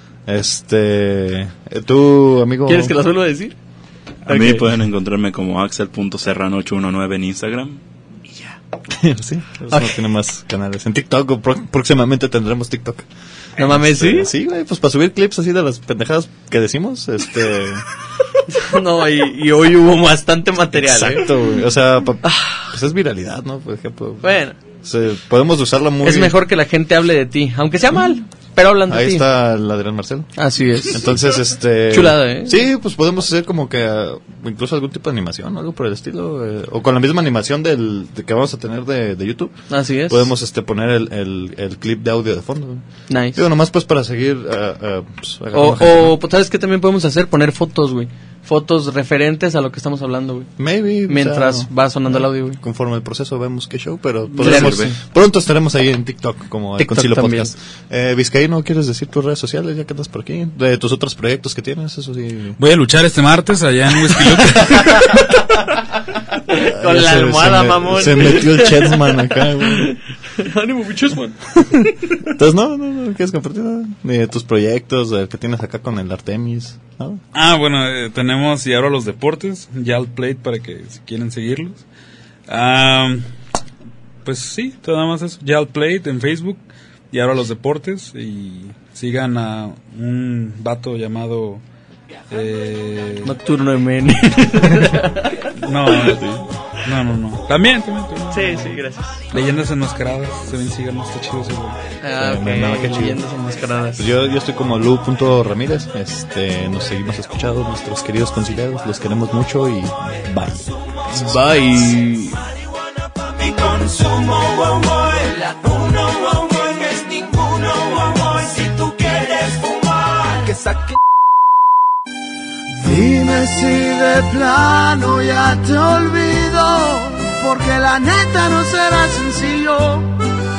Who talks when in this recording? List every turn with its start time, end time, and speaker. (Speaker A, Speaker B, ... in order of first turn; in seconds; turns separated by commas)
Speaker A: 0.3-2.9, Speaker B: 2.7-3.6, Speaker B: 4.3-4.7, Speaker C: 4.3-7.8, Speaker A: 8.9-13.1, Speaker B: 9.7-10.0, Speaker B: 13.6-14.3, Speaker A: 13.6-17.8, Speaker B: 18.5-21.3, Speaker A: 20.7-24.3, Speaker B: 22.2-22.7, Speaker B: 24.2-24.6, Speaker A: 24.8-26.4, Speaker B: 26.0-29.3, Speaker A: 28.9-30.3, Speaker B: 30.4-31.1, Speaker A: 30.9-39.5, Speaker B: 31.9-32.6, Speaker B: 39.7-40.3, Speaker A: 40.1-42.8, Speaker B: 43.1-43.4, Speaker A: 43.4-46.1, Speaker B: 45.5-50.5, Speaker A: 50.6-62.6, Speaker B: 51.1-52.6, Speaker C: 54.4-54.9, Speaker B: 54.4-55.0, Speaker B: 56.8-57.5, Speaker D: 62.6-65.2, Speaker B: 64.5-65.8, Speaker B: 66.5-72.0, Speaker A: 66.5-70.0, Speaker A: 72.1-77.2, Speaker D: 77.3-81.8, Speaker D: 82.5-83.3, Speaker D: 84.2-91.6, Speaker D: 92.3-93.3, Speaker B: 93.2-96.2, Speaker D: 95.6-98.8, Speaker A: 96.0-96.4, Speaker B: 98.3-99.2, Speaker D: 99.3-101.8, Speaker B: 102.0-104.1, Speaker A: 102.2-103.2, Speaker A: 104.0-111.7, Speaker B: 111.1-112.5, Speaker E: 113.2-121.0, Speaker E: 122.8-130.1